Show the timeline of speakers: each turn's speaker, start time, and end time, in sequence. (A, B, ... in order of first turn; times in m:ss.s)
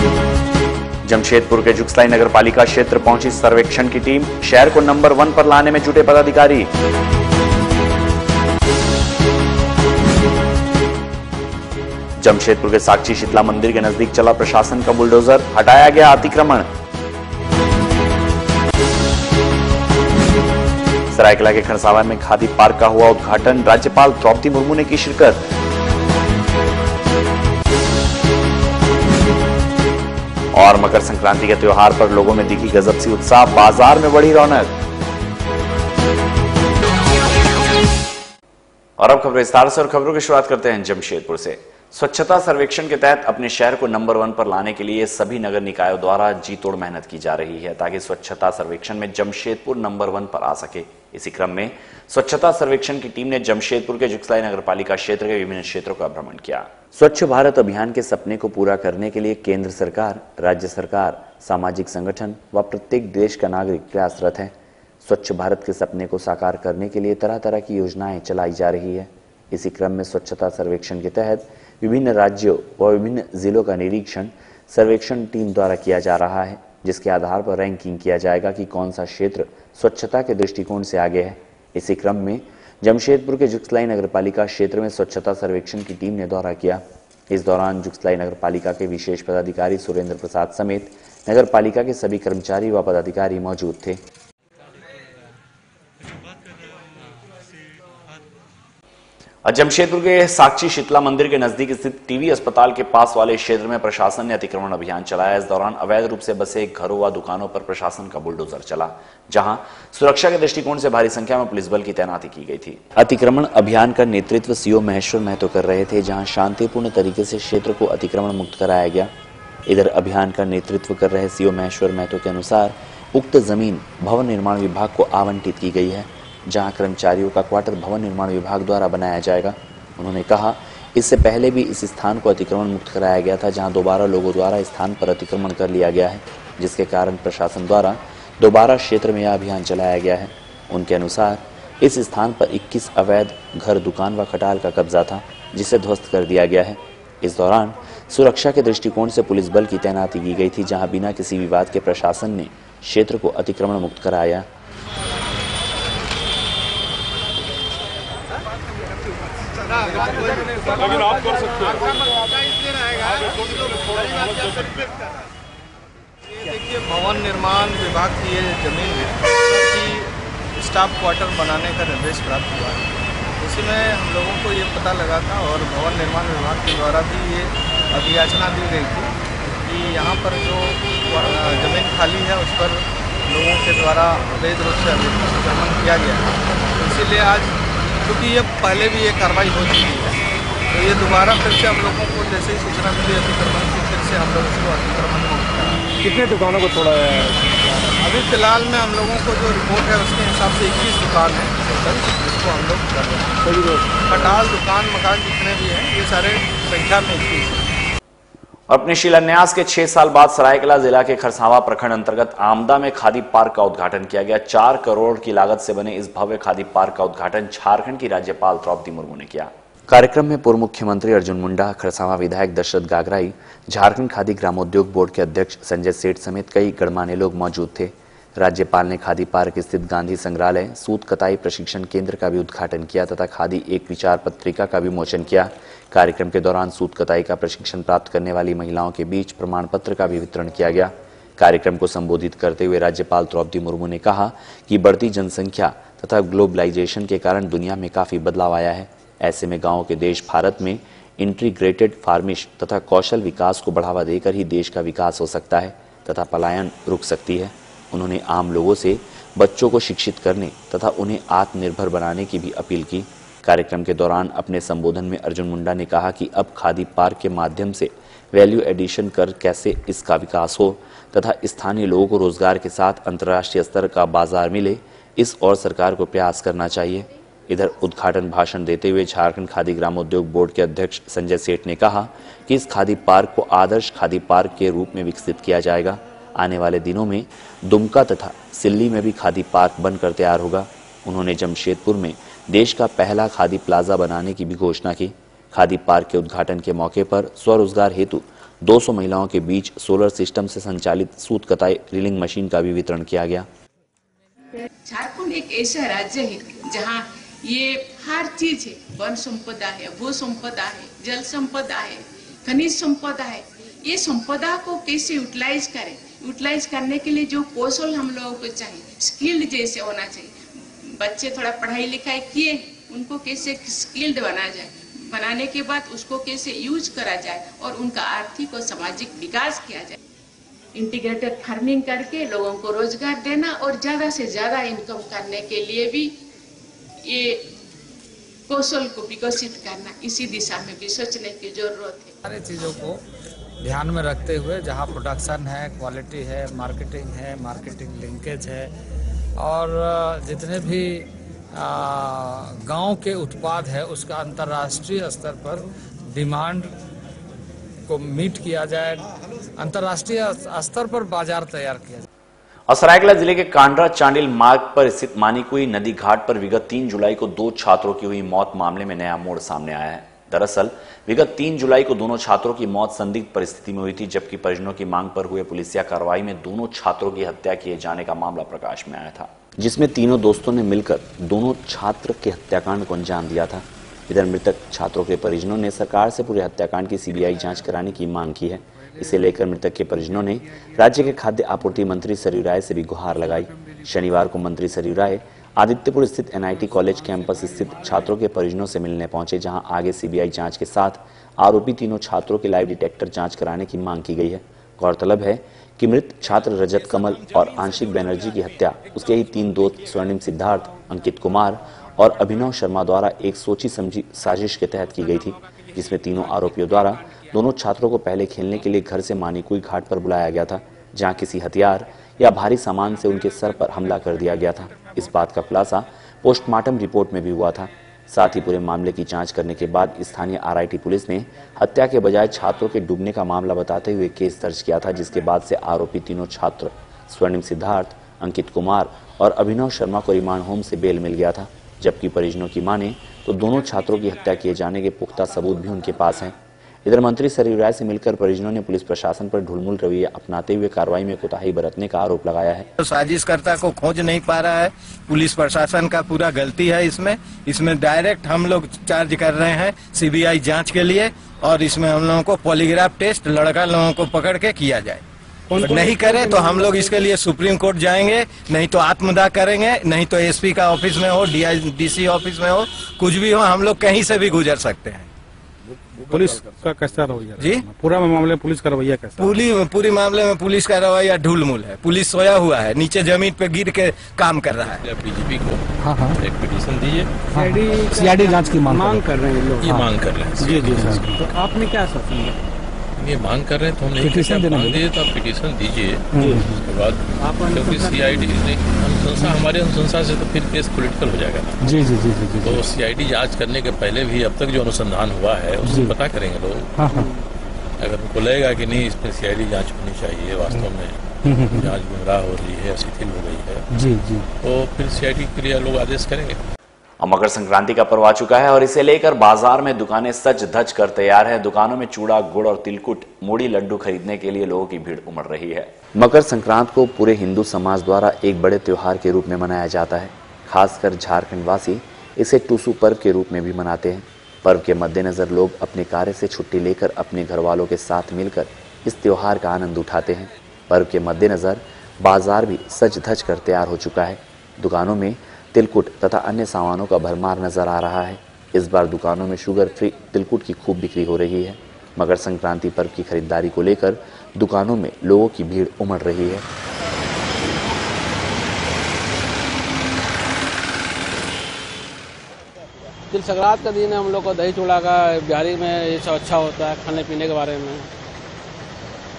0:01.0-0:06.7 A
0:12.2-0:16.7 A
0:21.1-0:25.4 A
0:30.5-0:34.7 A
0:39.0-1:34.0 A
1:39.4-1:59.1 A
1:59.7-2:34.5 A
2:39.8-2:40.9 B
2:43.8-2:44.4 B
2:46.3-2:52.9 B
2:53.4-2:59.1 B
2:59.6-3:15.8 B
3:16.0-3:17.3 C
3:18.0-3:23.4 B
3:24.1-3:27.6 B
3:28.7-5:03.5 A
5:04.8-5:30.0 D
5:30.7-5:36.2 D
5:37.0-5:37.5 D
5:38.5-5:42.2 D
5:42.2-5:43.0 E
5:43.6-5:48.7 E
5:49.4-5:56.7 E
5:57.9-6:02.0 E
6:02.7-7:32.7 A
7:32.8-7:45.0 F
7:45.5-7:46.6 C
7:45.5-7:55.1 F
7:56.1-7:59.4 C
7:57.4-7:57.6 F
7:59.2-8:04.8 F
8:04.7-8:11.3 G
8:05.8-8:06.2 C
8:07.3-8:09.9 C
8:10.4-8:12.3 C
8:13.0-8:21.8 G
8:14.0-8:14.8 C
8:16.1-8:16.6 C
8:17.2-8:18.2 C
8:21.6-8:22.6 C
8:22.4-8:27.0 G
8:25.6-8:25.9 C
8:26.8-8:27.1 C
8:27.8-8:33.6 G
8:31.3-8:31.7 C
8:33.7-8:34.2 C
8:34.4-8:36.4 G
8:37.0-9:16.4 A
9:23.1-9:27.9 H